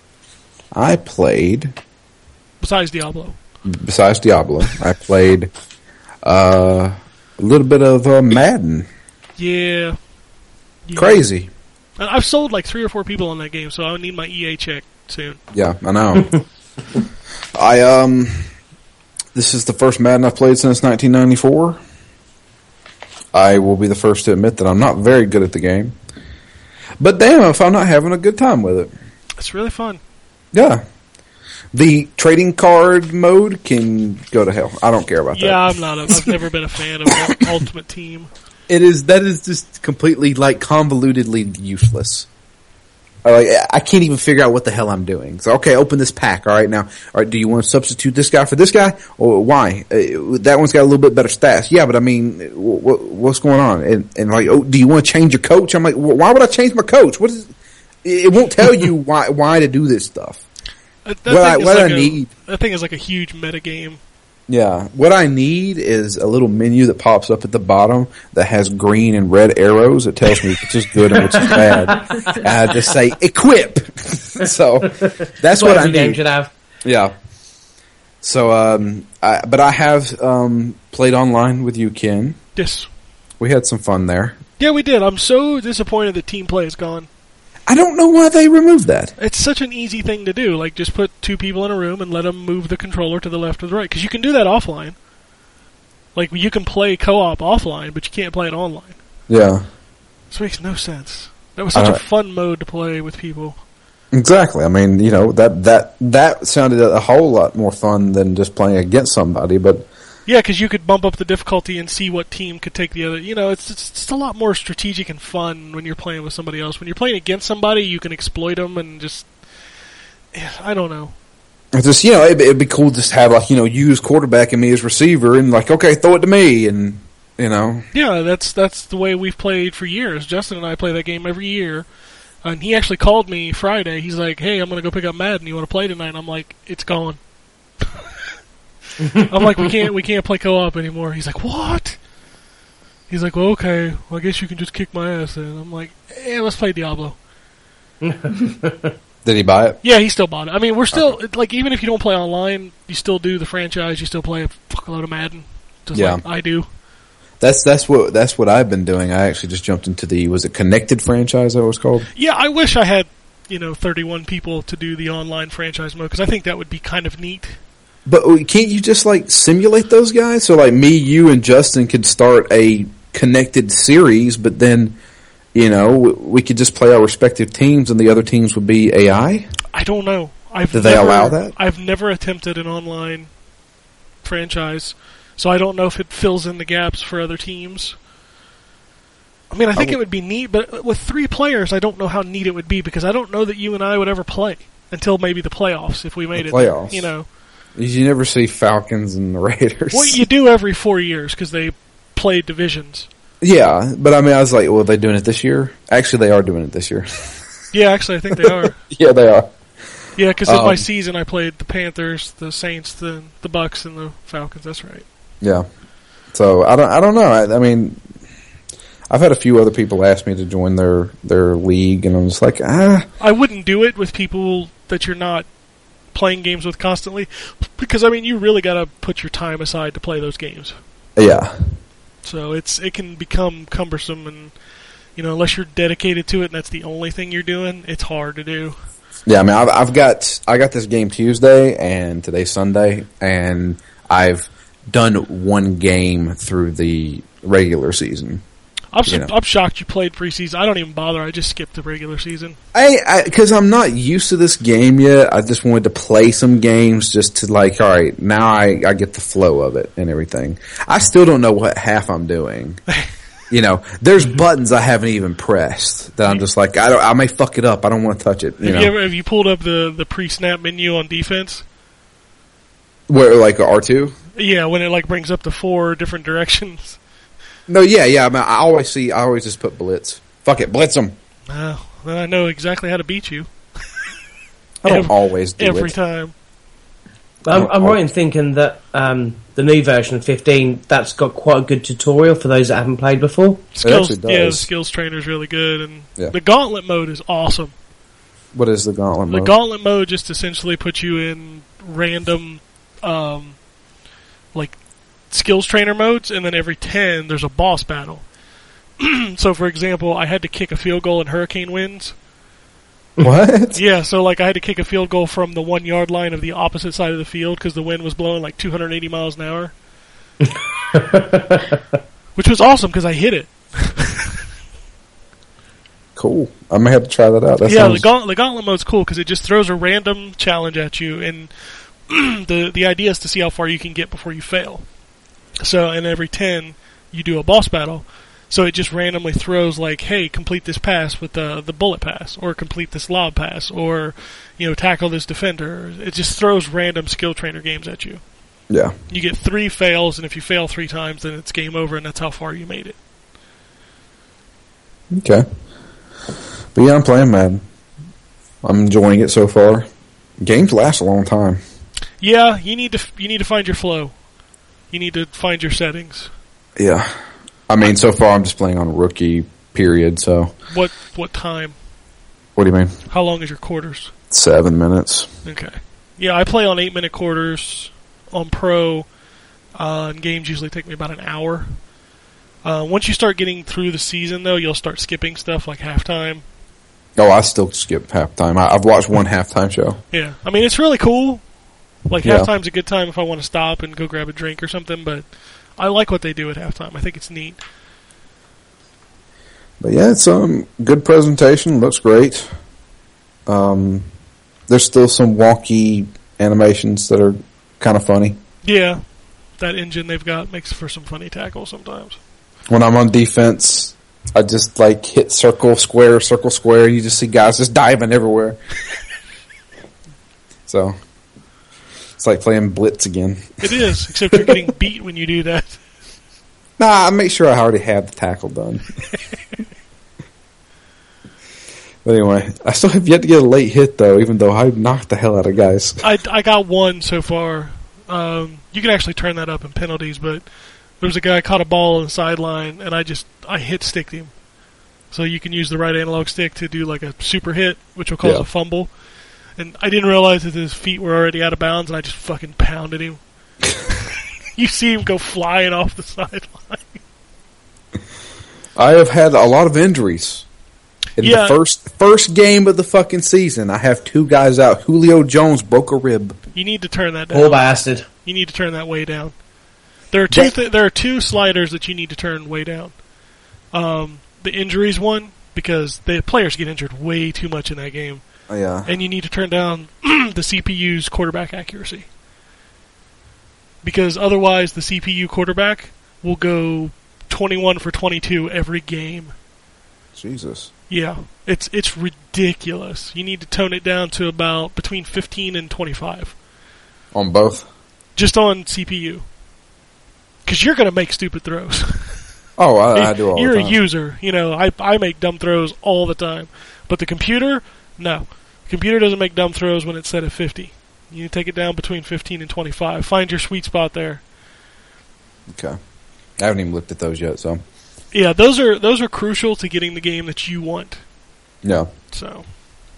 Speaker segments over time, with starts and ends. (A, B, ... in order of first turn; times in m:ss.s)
0:00.7-0:01.8 A
0:02.6-0:03.4 B
0:03.6-0:05.5 A
0:06.2-0:08.9 A
0:09.4-0:10.0 B
0:10.9-0:11.3 B
0:11.0-0:11.5 A
0:12.0-0:15.4 B
0:15.5-0:16.3 A
0:17.6-0:18.5 A
0:19.4-0:21.8 A
0:23.3-0:26.0 A
0:27.0-0:28.9 A
0:29.4-0:30.0 B
0:30.5-0:30.8 A
0:31.7-0:36.3 A
0:35.3-0:38.3 B
0:38.7-0:42.3 A
0:43.2-0:57.5 A
0:58.0-1:00.4 A
1:01.0-1:04.0 B
1:01.3-1:02.3 A
1:04.5-1:16.2 A
1:11.4-1:12.2 C
1:15.5-1:16.5 C
1:16.8-1:17.2 A
1:18.2-1:22.4 A
1:22.6-1:22.9 B
1:23.4-1:24.4 A
1:24.6-1:27.1 B
1:27.7-1:29.1 A
1:29.2-1:35.0 B
1:36.2-1:39.0 B
1:39.3-1:39.6 A
1:40.3-1:43.6 B
1:41.7-1:42.0 A
1:44.1-1:49.9 A
1:50.3-1:59.3 B
2:00.3-2:01.2 B
2:01.7-2:07.9 A
2:07.9-2:11.9 B
2:12.4-2:17.2 B
2:19.1-2:22.0 B
2:23.1-2:27.2 B
2:28.0-2:28.9 C
2:29.2-2:29.8 A
2:29.8-2:36.7 B
2:30.9-2:31.2 A
2:35.9-2:36.2 A
2:37.4-2:42.1 A
2:42.2-2:47.6 B
2:48.1-2:55.0 A
2:55.5-2:59.5 A
2:59.7-3:03.3 B
3:00.7-3:01.5 A
3:04.2-3:08.0 B
3:09.5-3:17.3 B
3:16.4-3:17.1 A
3:17.8-3:20.2 A
3:19.9-3:23.1 B
3:23.4-3:27.4 A
3:27.7-3:28.8 B
3:28.3-3:29.5 A
3:30.2-3:35.0 B
3:30.5-3:30.8 A
3:36.3-3:38.0 A
3:39.1-3:43.1 A
3:43.2-3:45.5 B
3:46.1-3:50.8 B
3:51.2-3:51.6 A
3:52.2-3:54.5 B
3:55.2-3:58.8 B
3:59.3-4:08.4 A
4:08.9-4:12.6 B
4:09.1-4:09.3 A
4:12.7-4:22.8 A
4:23.5-4:28.9 A
4:28.6-4:31.6 B
4:33.1-4:34.2 A
4:34.4-4:37.0 B
4:37.7-4:41.2 A
4:41.5-4:43.5 B
4:44.8-4:46.0 A
4:44.8-4:46.3 B
4:47.4-4:53.7 C
4:47.5-4:48.0 A
4:53.8-4:57.7 B
4:53.8-4:54.7 A
4:58.5-4:59.6 A
4:59.3-5:03.6 B
5:05.3-5:08.2 B
5:09.0-5:12.2 B
5:13.2-5:13.8 A
5:13.8-5:19.7 B
5:20.4-5:21.8 C
5:22.4-5:24.3 B
5:26.2-5:28.1 A
5:27.6-5:34.9 B
5:35.6-5:48.2 B
5:49.1-5:53.0 B
5:55.1-5:55.4 A
5:56.7-5:57.6 A
5:58.6-5:59.9 A
6:00.4-6:01.6 A
6:02.2-6:04.1 B
6:04.9-6:06.3 B
6:06.8-6:07.1 A
6:07.7-6:10.5 A
6:10.7-6:11.8 B
6:12.6-6:13.0 A
6:13.1-6:14.1 B
6:14.3-6:15.3 A
6:15.4-6:19.1 B
6:19.8-6:21.8 B
6:22.6-6:26.4 B
6:27.2-6:30.0 A
6:30.1-6:31.4 B
6:32.1-6:37.6 B
6:32.2-6:32.5 A
6:39.8-6:42.5 A
6:43.5-6:44.1 A
6:44.7-6:48.4 A
6:48.6-6:49.0 B
6:49.6-6:52.2 B
6:52.7-6:58.6 A
7:00.7-7:01.0 A
7:02.2-7:03.6 A
7:03.6-7:05.8 B
7:06.8-7:08.9 A
7:12.0-7:16.0 A
7:16.0-7:20.4 B
7:21.0-7:24.3 B
7:25.1-7:28.9 B
7:28.2-7:28.5 A
7:29.6-7:33.2 B
7:34.6-7:37.0 B
7:38.8-7:40.5 A
7:41.2-7:46.4 A
7:41.2-7:41.6 B
7:46.6-7:47.7 B
7:47.3-7:48.1 C
7:48.2-7:49.4 B
7:50.1-7:53.0 B
7:53.7-7:58.2 B
7:58.5-7:58.9 A
7:58.9-8:02.1 B
8:03.8-8:09.3 B
8:10.2-8:10.7 A
8:10.9-8:16.4 B
8:17.1-8:17.7 A
8:18.2-8:19.2 B
8:20.5-8:22.2 B
8:22.6-8:23.8 A
8:22.9-8:34.2 B
8:35.5-8:35.8 A
8:36.4-8:37.6 A
8:38.1-8:41.0 B
8:41.6-8:41.9 A
8:42.1-8:42.5 B